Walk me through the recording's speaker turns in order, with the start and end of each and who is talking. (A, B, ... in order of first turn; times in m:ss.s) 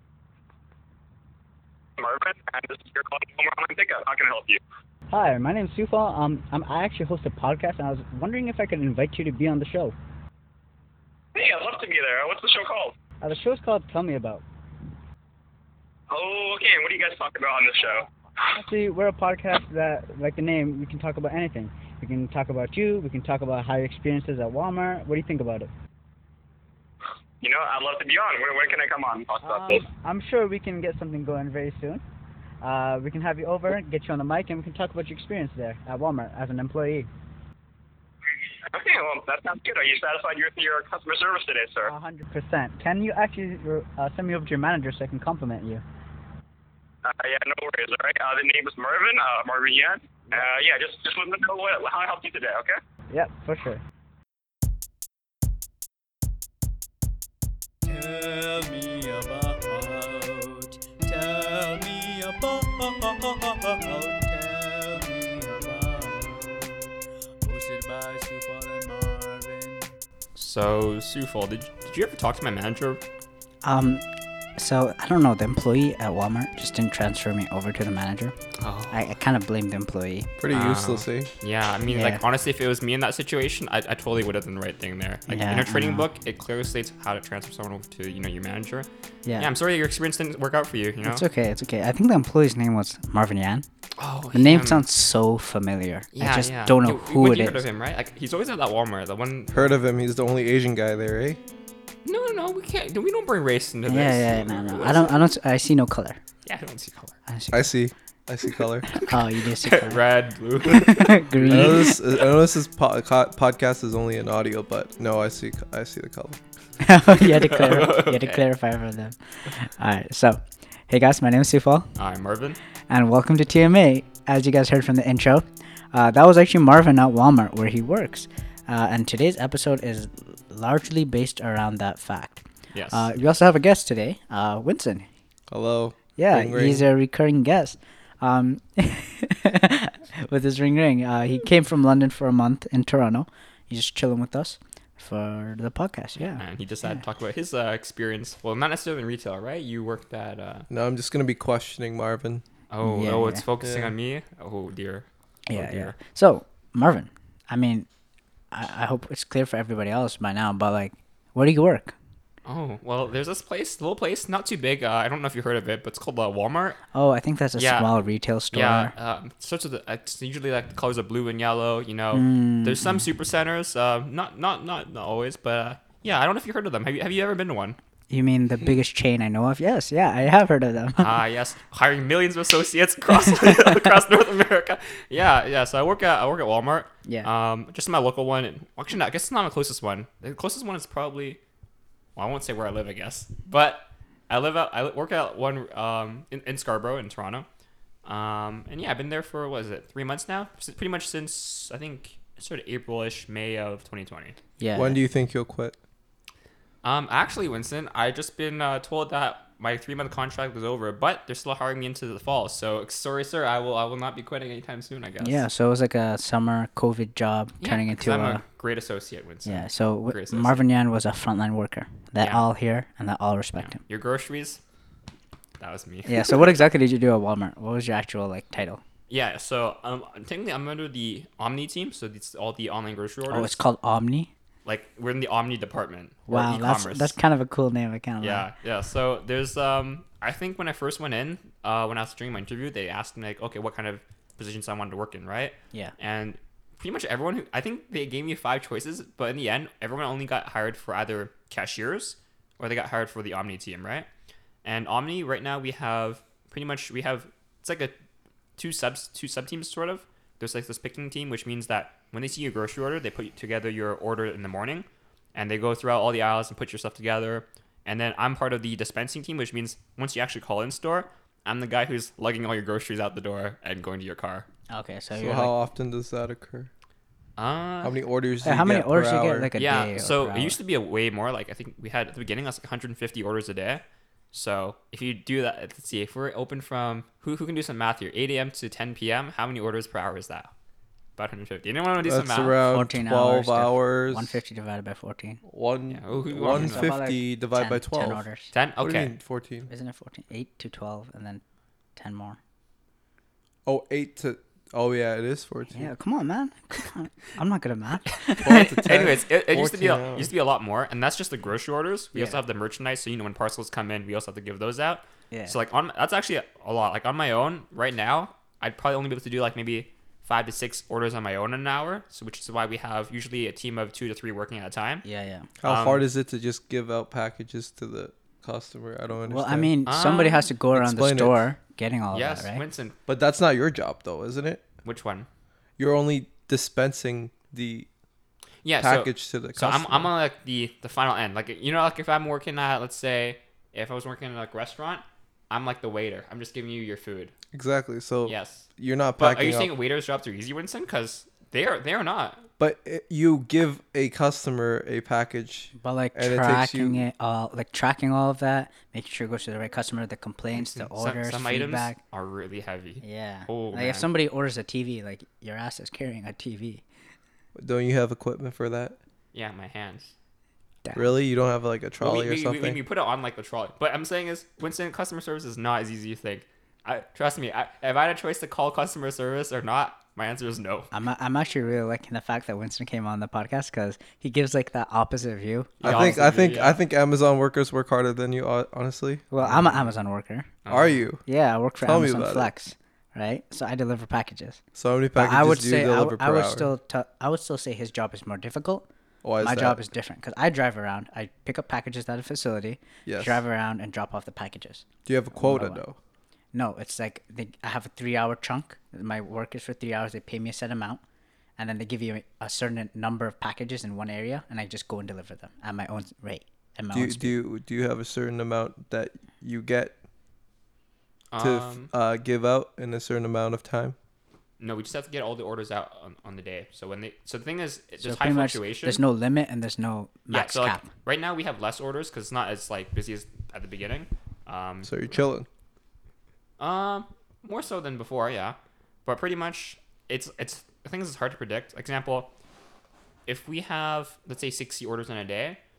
0:02.0-0:04.6 A
0:05.1-0:09.9 B
0:11.3-0:12.9 A
0:13.2-0:14.4 B
0:16.1-0:18.0 A
0:18.6-0:25.7 B
0:27.4-0:29.9 A
0:29.4-0:32.0 B
0:32.6-0:37.1 B
0:38.7-0:41.9 A
0:41.8-0:45.8 B
0:47.0-0:52.8 A
0:53.1-0:53.8 B
0:57.9-1:06.7 C
1:07.4-1:09.9 C
1:10.3-1:13.0 D
1:13.6-1:14.0 E
1:14.6-1:18.4 E
1:18.6-1:19.0 D
1:18.9-1:20.3 E
1:20.4-1:21.3 F
1:20.5-1:31.2 D
1:21.9-1:22.2 E
1:25.3-1:26.0 E
1:29.2-1:29.5 E
1:31.0-1:33.6 E
1:34.0-1:34.8 D
1:34.3-1:37.6 E
1:36.1-1:39.7 D
1:39.5-1:41.4 F
1:42.0-1:45.2 D
1:43.9-1:46.2 E
1:46.4-1:47.2 D
1:47.3-1:47.7 E
1:47.5-1:49.0 F
1:48.9-1:52.0 D
1:49.0-1:50.0 E
1:50.6-1:52.0 E
1:51.4-1:56.4 F
1:56.8-2:01.9 E
1:57.1-1:58.5 D
2:02.0-2:02.6 D
2:02.9-2:15.1 E
2:12.7-2:13.1 D
2:15.5-2:16.9 F
2:16.2-2:26.9 E
2:26.3-2:30.7 D
2:30.7-2:32.4 F
2:32.7-2:36.0 D
2:32.8-2:33.4 E
2:33.6-2:33.9 F
2:35.5-2:37.9 E
2:38.5-2:41.9 E
2:42.4-2:46.8 D
2:46.9-2:48.9 E
2:47.6-2:48.0 D
2:48.5-2:57.8 D
2:52.1-2:53.1 E
2:58.1-3:01.1 E
3:01.0-3:11.4 D
3:03.4-3:03.7 E
3:12.2-3:17.5 D
3:18.0-3:24.4 D
3:24.6-3:25.0 E
3:24.7-3:25.8 F
3:26.8-3:35.4 D
3:35.2-3:38.4 E
3:37.6-3:40.6 D
3:39.4-3:43.8 E
3:42.2-3:42.4 D
3:43.6-3:44.6 D
3:45.6-3:46.5 D
3:46.0-3:48.8 E
3:49.1-3:53.6 D
3:53.3-3:54.3 E
3:54.6-3:57.2 D
3:56.3-3:58.5 E
3:58.2-4:14.1 D
4:14.6-4:17.9 D
4:18.6-4:34.4 D
4:34.7-4:35.5 E
4:35.2-4:36.7 F
4:37.4-4:38.0 D
4:37.8-4:39.5 F
4:38.4-4:40.6 E
4:39.6-4:50.5 D
4:51.2-4:52.6 D
4:52.0-4:54.4 F
4:52.7-4:55.4 E
4:55.5-4:58.2 F
4:55.9-4:56.9 D
4:56.5-4:58.5 E
4:58.5-4:59.1 D
4:58.8-4:59.7 F
4:59.7-5:01.4 E
5:02.0-5:02.4 E
5:03.6-5:05.9 F
5:05.7-5:09.0 E
5:08.4-5:10.3 F
5:08.5-5:25.0 D
5:12.1-5:12.4 E
5:15.3-5:15.6 E
5:25.0-5:25.5 E
5:25.6-5:29.7 F
5:25.6-5:26.0 D
5:29.2-5:32.6 E
5:29.8-5:30.5 D
5:30.7-5:31.4 F
5:32.1-5:33.0 D
5:33.1-5:34.6 F
5:34.8-5:35.3 D
5:35.8-5:37.9 F
5:38.6-5:47.3 D
5:38.8-5:40.1 F
5:47.5-5:49.7 F
5:48.2-5:48.7 D
5:49.2-5:52.4 D
5:52.6-5:57.0 F
5:55.7-6:02.0 E
6:00.5-6:04.1 D
6:03.0-6:06.8 E
6:07.6-6:09.0 F
6:09.3-6:10.1 D
6:10.8-6:11.1 E
6:10.9-6:12.8 F
6:12.0-6:20.9 D
6:20.9-6:26.6 E
6:25.8-6:26.8 D
6:25.8-6:29.4 F
6:29.3-6:30.6 E
6:30.6-6:31.0 D
6:30.7-6:31.2 F
6:31.2-6:34.6 E
6:31.8-6:32.5 F
6:34.8-6:36.7 F
6:35.1-6:38.9 E
6:39.2-6:39.8 F
6:39.4-6:45.8 E
6:43.0-6:43.4 F
6:45.0-6:46.0 F
6:46.5-6:51.0 E
6:51.6-6:57.3 E
6:56.9-6:59.9 F
7:01.3-7:01.9 D
7:01.4-7:04.0 F
7:04.6-7:09.0 D
7:08.0-7:10.9 E
7:10.3-7:15.2 D
7:14.8-7:15.5 F
7:16.6-7:22.3 D
7:23.2-7:25.6 D